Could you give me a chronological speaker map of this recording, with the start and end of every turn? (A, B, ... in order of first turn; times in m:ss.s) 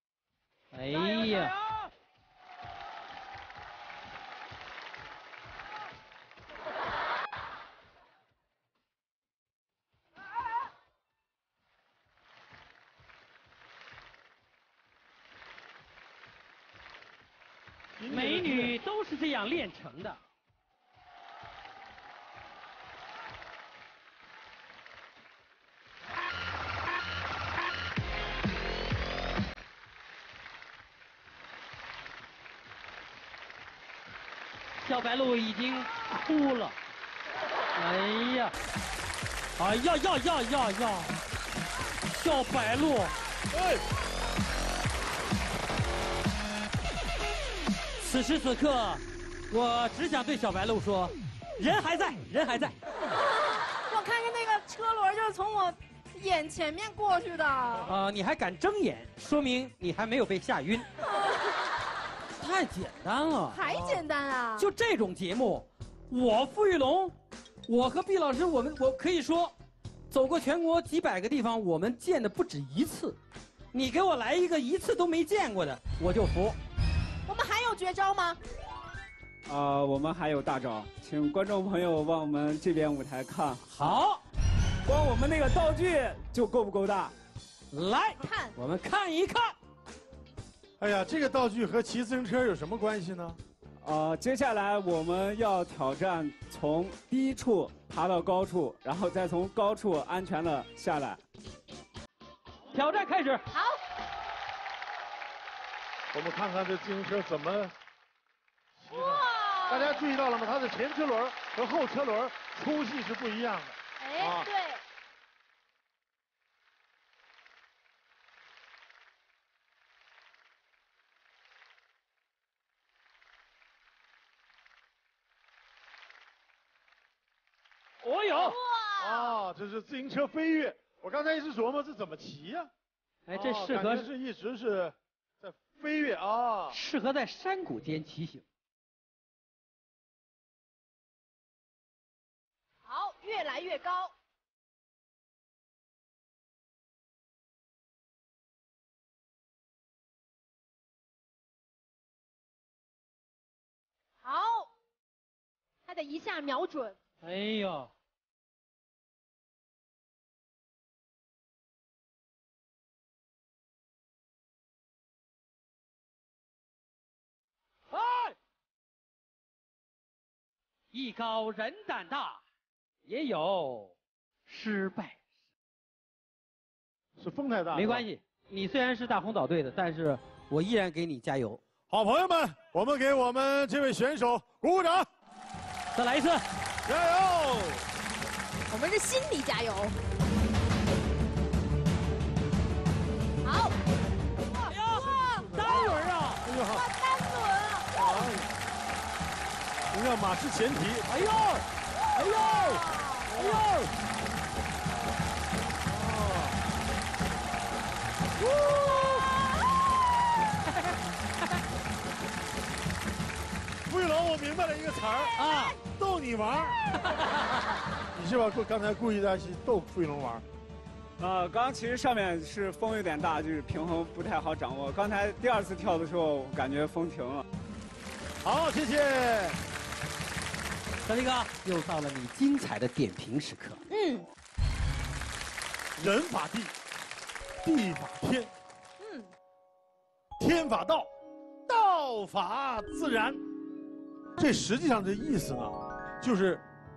0:00.7-0:01.5 A
0:18.0-0:18.7 B
0:18.1-0:20.2 A
0:34.8-0:36.7 A
0:37.7-0:38.5 A
0:39.6-0:41.2 A
0:42.1-0:43.1 A
0:48.0-0:52.8 A
0:53.0-0:57.9 C
0:57.8-1:00.9 A
1:01.0-1:01.6 C
1:02.4-1:03.6 A
1:03.5-1:04.7 C
1:03.7-1:04.0 B
1:04.6-1:07.1 A
1:07.7-1:09.5 A
1:10.1-1:13.2 A
1:13.7-1:16.6 A
1:17.3-1:18.4 C
1:19.5-1:23.6 D
1:23.7-1:24.2 A
1:24.8-1:27.1 D
1:27.7-1:29.5 A
1:28.2-1:28.5 C
1:30.8-1:33.4 B
1:33.8-1:41.2 D
1:42.7-1:43.4 A
1:43.5-1:43.8 C
1:46.1-1:47.7 B
1:48.9-1:54.5 B
1:48.9-1:49.9 C
1:54.0-1:54.8 C
2:08.0-2:08.6 A
2:08.4-2:09.2 C
2:09.0-2:12.7 B
2:13.3-2:14.1 A
2:13.3-2:16.8 B
2:16.7-2:18.4 A
2:22.9-2:24.1 C
2:34.2-2:34.7 C
2:35.9-2:36.9 C
2:37.2-2:37.9 A
2:47.9-2:48.3 A
2:50.9-2:52.4 A
2:53.1-2:53.9 A
2:54.5-2:55.2 A
2:57.2-2:58.0 B
2:57.7-3:01.6 A
3:01.9-3:05.0 B
3:05.9-3:06.4 A
3:06.8-3:07.8 B
3:08.7-3:10.0 C
3:13.4-3:13.8 C
3:14.5-3:15.8 C
3:14.7-3:16.4 A
3:14.9-3:16.9 B
3:16.6-3:18.1 C
3:17.9-3:18.5 B
3:19.9-3:21.1 B
3:21.1-3:23.9 A
3:22.7-3:23.3 C
3:23.3-3:23.6 B
3:25.8-3:26.6 B
3:33.8-3:36.8 B
3:35.4-3:35.8 A
3:37.0-3:37.7 A
3:38.1-3:40.4 B
3:41.2-3:47.4 D
3:48.4-3:49.6 B
3:51.0-3:53.8 A
3:53.9-3:54.2 C
3:56.0-3:56.7 B
3:57.6-3:58.5 B
3:59.0-3:59.3 C
4:00.4-4:01.1 B
4:01.7-4:03.4 B
4:04.4-4:06.6 B